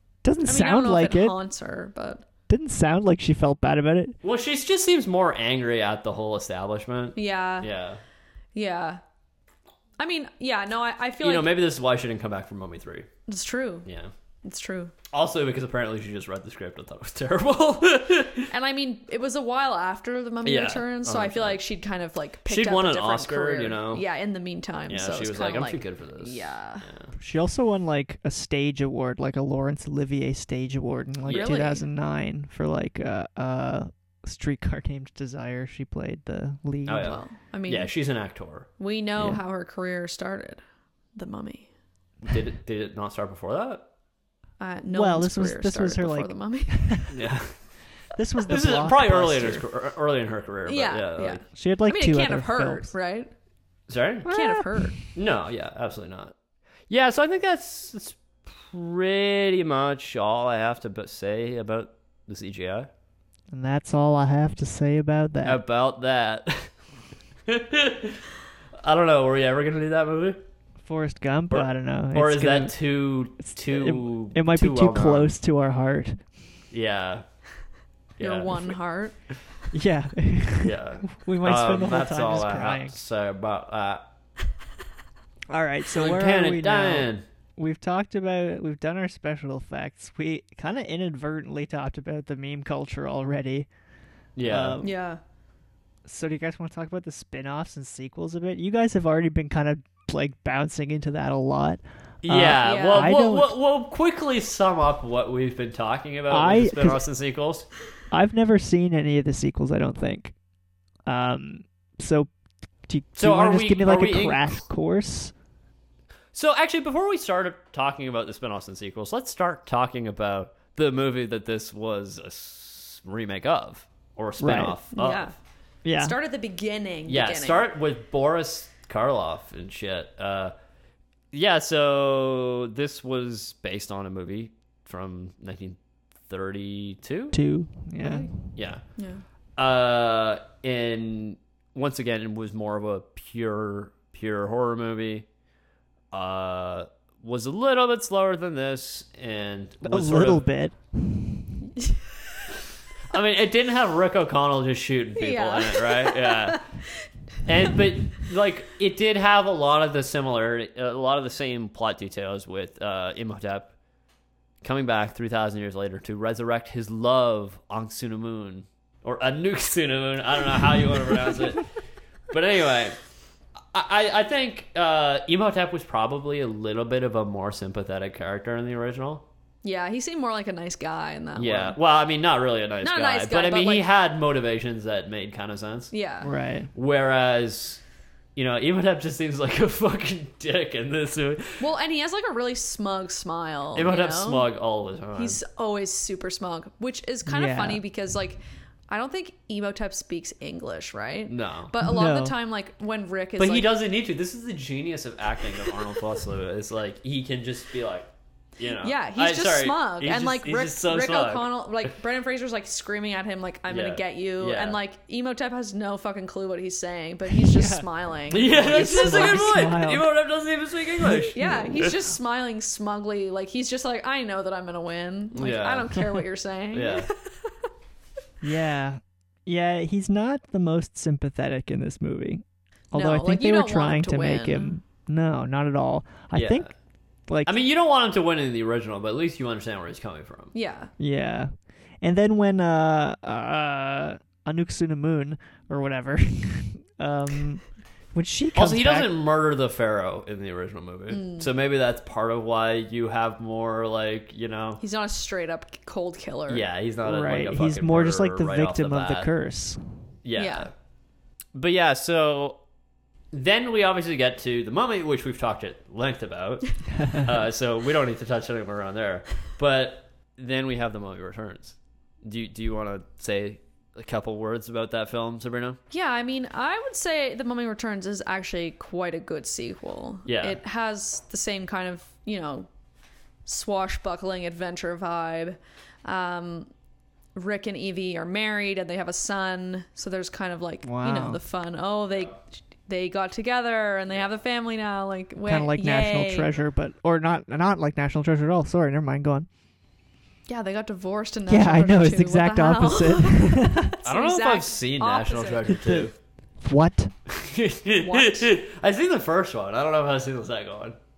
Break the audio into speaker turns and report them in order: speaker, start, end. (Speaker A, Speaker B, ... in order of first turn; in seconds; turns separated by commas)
Speaker A: 0.2-1.4, Speaker B: 0.4-2.2, Speaker A: 2.5-4.2, Speaker C: 4.2-8.0, Speaker B: 7.2-7.7, Speaker B: 8.5-9.0, Speaker B: 10.0-11.5, Speaker C: 11.2-13.1, Speaker B: 13.3-13.9, Speaker C: 13.8-14.1, Speaker B: 14.4-14.9, Speaker C: 15.1-18.5, Speaker B: 18.5-26.8, Speaker C: 20.4-21.6, Speaker C: 22.5-24.0, Speaker C: 24.9-27.1, Speaker A: 27.2-37.2, Speaker C: 31.2-31.5, Speaker B: 31.3-31.9, Speaker C: 36.9-38.7, Speaker B: 37.0-37.9, Speaker B: 38.8-40.6, Speaker B: 41.1-41.7, Speaker C: 42.2-43.9, Speaker B: 44.6-47.0, Speaker A: 44.9-47.1, Speaker C: 47.1-47.6, Speaker A: 48.1-49.6, Speaker C: 48.5-51.4, Speaker B: 50.6-53.3, Speaker A: 51.5-52.9, Speaker C: 53.9-54.3, Speaker A: 54.2-55.0, Speaker B: 54.2-55.0, Speaker C: 55.0-56.3, Speaker C: 56.9-62.9, Speaker A: 63.5-65.6, Speaker C: 65.4-66.8, Speaker C: 67.5-68.2, Speaker C: 68.8-70.4, Speaker A: 70.8-72.8, Speaker C: 71.5-75.3, Speaker A: 73.4-76.2, Speaker C: 76.7-77.2, Speaker C: 78.2-78.8, Speaker B: 78.2-79.1, Speaker A: 79.7-83.0, Speaker C: 80.6-84.0, Speaker A: 85.5-93.7, Speaker C: 85.9-87.2, Speaker C: 94.3-94.8, Speaker A: 94.4-94.9, Speaker B: 94.8-95.2, Speaker A: 96.0-103.5, Speaker C: 102.2-107.7, Speaker B: 102.6-103.1, Speaker A: 106.3-107.0, Speaker A: 108.1-110.3, Speaker A: 111.0-112.3, Speaker A: 112.8-115.3, Speaker C: 113.2-114.6, Speaker C: 116.3-125.3, Speaker A: 124.4-124.8, Speaker B: 124.9-125.3, Speaker A: 125.8-126.2, Speaker B: 126.0-127.7, Speaker C: 127.1-130.5, Speaker C: 131.3-137.4, Speaker A: 137.3-138.4, Speaker C: 138.0-138.9, Speaker B: 139.0-139.2, Speaker C: 139.6-145.2, Speaker C: 146.1-150.4, Speaker A: 149.8-151.6, Speaker B: 151.8-152.1, Speaker C: 153.1-156.7, Speaker B: 155.2-156.8, Speaker C: 157.4-163.7, Speaker C: 164.6-171.7, Speaker C: 172.3-173.0, Speaker C: 173.7-179.2, Speaker B: 179.6-181.8, Speaker C: 181.4-185.9, Speaker B: 182.8-183.9, Speaker B: 185.9-186.3, Speaker A: 186.2-186.7, Speaker C: 186.7-187.8, Speaker C: 188.3-191.6, Speaker B: 191.6-194.5, Speaker C: 193.7-195.4, Speaker B: 195.1-203.7, Speaker A: 197.2-197.8, Speaker C: 201.3-201.7, Speaker A: 201.8-202.3, Speaker C: 203.4-211.9, Speaker B: 208.8-219.5, Speaker C: 213.7-214.8, Speaker A: 217.3-217.9, Speaker C: 218.3-221.9, Speaker A: 218.6-220.1, Speaker A: 221.0-221.8, Speaker B: 221.3-227.5, Speaker C: 225.3-226.1, Speaker C: 226.7-227.1, Speaker A: 228.4-236.7, Speaker B: 232.9-234.8, Speaker C: 236.3-236.7, Speaker A: 237.3-237.5, Speaker C: 237.4-240.5, Speaker B: 240.5-240.9, Speaker A: 241.0-249.1, Speaker C: 248.5-254.8, Speaker B: 251.1-251.5, Speaker B: 254.8-256.6, Speaker C: 256.5-259.3, Speaker A: 257.0-260.1, Speaker C: 260.2-260.7, Speaker B: 260.4-260.7, Speaker C: 261.5-262.6, Speaker C: 263.3-275.8, Speaker A: 266.9-267.3, Speaker B: 275.9-282.7, Speaker C: 280.2-280.6, Speaker B: 283.4-286.7, Speaker B: 287.3-296.5, Speaker A: 290.8-291.4, Speaker A: 295.4-299.5, Speaker B: 300.5-305.7, Speaker A: 301.5-303.9, Speaker C: 304.0-306.1, Speaker A: 305.6-307.1, Speaker C: 307.3-310.9, Speaker B: 307.9-308.5